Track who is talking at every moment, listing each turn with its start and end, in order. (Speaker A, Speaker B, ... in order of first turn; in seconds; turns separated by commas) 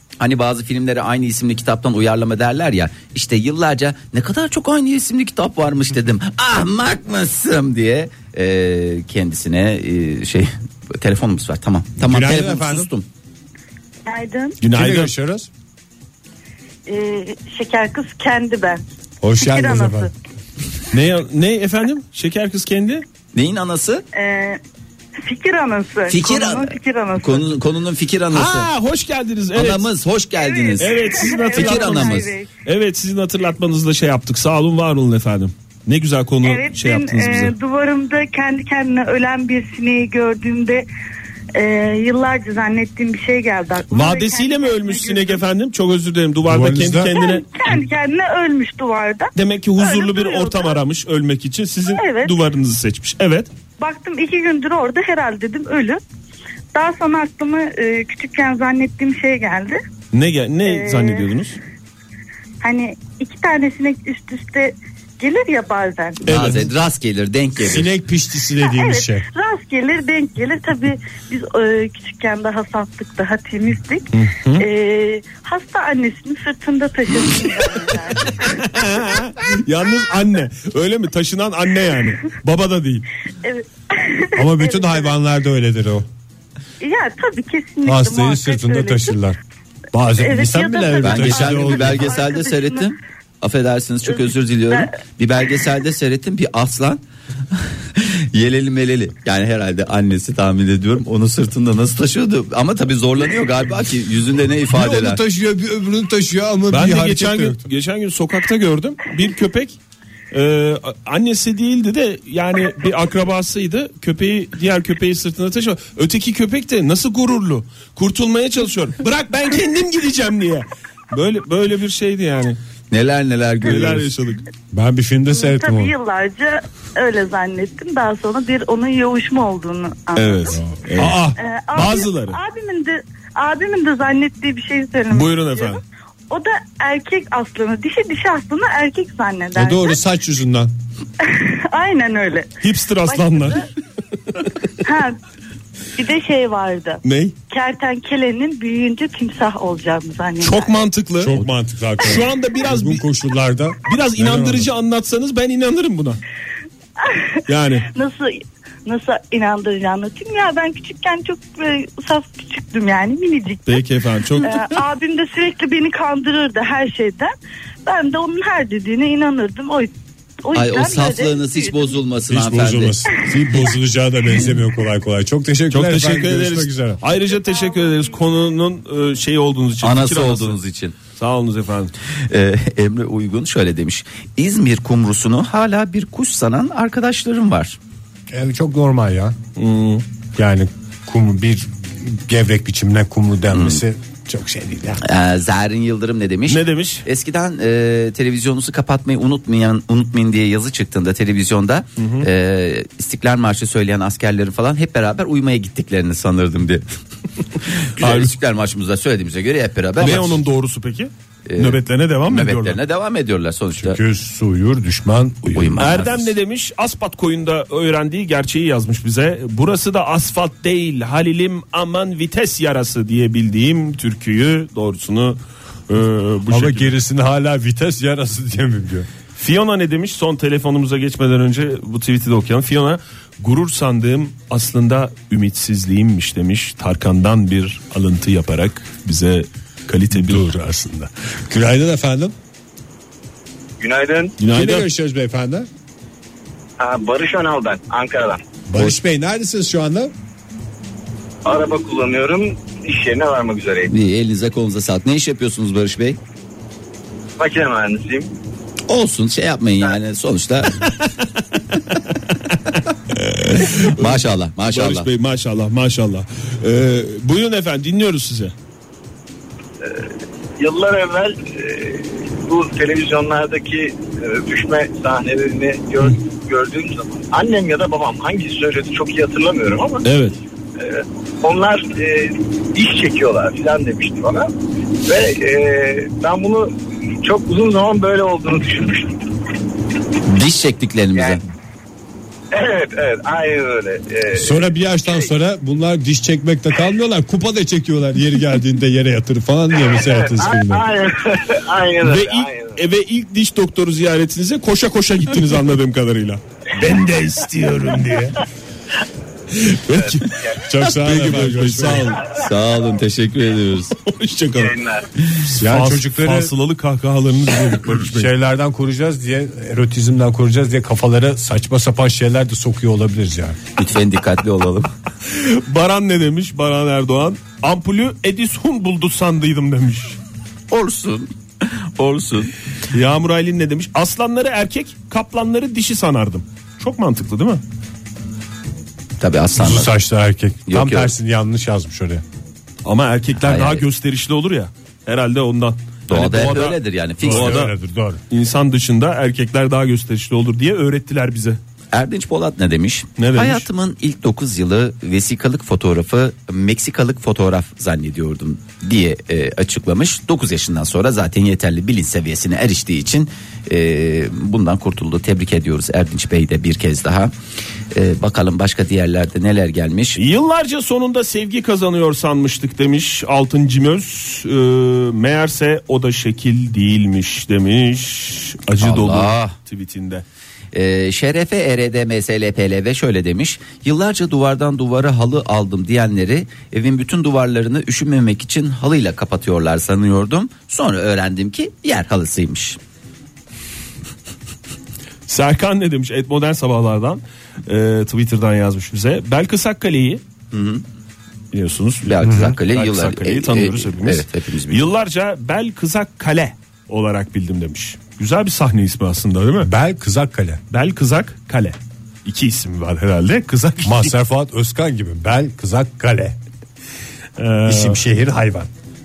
Speaker A: 0.2-13.1, Speaker B: 12.0-12.9, Speaker C: 14.1-14.6, Speaker D: 14.6-15.1, Speaker B: 14.7-15.5, Speaker C: 16.9-18.8, Speaker B: 19.2-20.1, Speaker C: 19.4-20.1, Speaker D: 20.9-23.0, Speaker A: 23.3-24.0, Speaker C: 24.1-24.6, Speaker C: 25.2-27.6, Speaker A: 26.1-28.7, Speaker D: 28.3-29.9, Speaker A: 29.5-32.3, Speaker C: 30.4-32.5, Speaker D: 30.8-37.5, Speaker C: 36.4-40.9, Speaker C: 41.5-45.4, Speaker D: 43.9-47.5, Speaker B: 46.4-47.1, Speaker C: 47.1-50.8, Speaker D: 49.3-53.5, Speaker C: 51.9-52.3, Speaker C: 53.8-56.0, Speaker C: 56.7-59.8, Speaker D: 60.1-61.6, Speaker C: 60.6-61.2, Speaker C: 62.6-66.2, Speaker A: 66.2-67.9, Speaker D: 66.3-66.6, Speaker B: 67.6-69.2, Speaker C: 68.6-78.4, Speaker D: 74.1-74.6, Speaker D: 78.4-83.1, Speaker C: 83.4-85.1, Speaker B: 84.3-86.0, Speaker C: 86.8-89.2, Speaker B: 87.8-89.4, Speaker B: 89.9-92.2, Speaker C: 90.2-92.9, Speaker A: 91.0-105.2, Speaker C: 94.1-94.9, Speaker B: 104.7-107.6, Speaker D: 106.7-109.8, Speaker D: 110.3-122.6, Speaker A: 122.9-124.1, Speaker D: 123.6-124.4, Speaker B: 124.7-125.9, Speaker C: 125.3-130.6, Speaker D: 130.2-132.4, Speaker B: 131.0-131.3, Speaker C: 131.3-135.8, Speaker D: 135.1-135.8, Speaker C: 136.3-140.0, Speaker B: 139.5-140.7, Speaker C: 141.2-142.5, Speaker D: 142.6-143.6, Speaker C: 143.1-143.7, Speaker C: 144.8-145.2, Speaker C: 145.9-150.7, Speaker D: 147.0-147.3, Speaker D: 150.4-151.4, Speaker B: 151.2-154.7, Speaker D: 152.0-153.0, Speaker D: 153.8-156.2, Speaker C: 157.0-157.3, Speaker D: 157.5-157.9, Speaker C: 157.9-163.8, Speaker D: 163.7-164.8, Speaker C: 164.4-167.3, Speaker C: 167.8-169.9, Speaker C: 170.4-171.9, Speaker A: 170.5-173.0, Speaker B: 172.3-177.0, Speaker D: 175.7-180.6, Speaker C: 177.5-178.0, Speaker A: 179.8-180.9, Speaker D: 181.1-181.9, Speaker A: 182.3-187.8, Speaker B: 188.3-189.3, Speaker D: 189.6-190.0, Speaker B: 190.3-195.0, Speaker A: 193.5-193.8, Speaker A: 195.0-206.8, Speaker D: 196.5-197.0, Speaker D: 202.0-202.3, Speaker A: 207.6-210.4, Speaker D: 208.0-208.3, Speaker D: 210.0-212.8, Speaker A: 211.5-214.0, Speaker B: 213.8-216.0, Speaker A: 215.5-216.3, Speaker D: 215.8-226.9, Speaker B: 226.5-229.1, Speaker D: 229.3-240.5, Speaker B: 240.1-242.3, Speaker E: 243.8-244.3, Speaker D: 244.4-244.9, Speaker B: 244.5-245.7, Speaker E: 246.8-248.4, Speaker B: 248.7-250.1, Speaker E: 251.4-253.9, Speaker A: 253.9-256.2, Speaker E: 257.4-258.3, Speaker A: 258.9-260.9, Speaker D: 263.1-268.5, Speaker A: 263.6-265.1, Speaker E: 269.8-280.0, Speaker D: 280.0-280.4, Speaker E: 280.8-284.5, Speaker E: 285.1-289.2, Speaker A: 290.2-291.4, Speaker E: 291.1-291.4, Speaker E: 292.5-295.2, Speaker B: 294.3-300.9, Speaker E: 299.8-302.8, Speaker D: 302.0-308.4, Speaker D: 309.5-312.4, Speaker E: 310.0-310.4, Speaker B: 310.6-312.2, Speaker A: 312.3-313.9, Speaker D: 314.0-314.8, Speaker E: 314.5-315.0, Speaker D: 315.3-318.3, Speaker B: 315.6-316.5, Speaker B: 318.0-323.6, Speaker A: 323.8-324.9, Speaker D: 325.2-330.2, Speaker A: 330.7-332.5, Speaker D: 332.9-337.6, Speaker A: 339.2-339.9, Speaker B: 339.5-342.2, Speaker A: 340.7-341.1, Speaker D: 342.8-347.7, Speaker A: 343.4-343.8, Speaker A: 346.1-347.6, Speaker B: 347.2-348.2, Speaker D: 348.3-351.6, Speaker A: 351.9-367.3, Speaker D: 353.2-353.7, Speaker A: 367.9-370.2, Speaker D: 370.1-380.2, Speaker A: 378.8-379.5, Speaker A: 380.7-392.8, Speaker D: 395.3-400.2, Speaker A: 400.5-400.8, Speaker D: 401.5-409.7, Speaker A: 402.1-404.8, Speaker B: 402.2-402.6, Speaker B: 409.6-410.6, Speaker D: 410.7-414.1, Speaker B: 413.8-416.4, Speaker D: 417.4-418.0, Speaker B: 417.6-418.7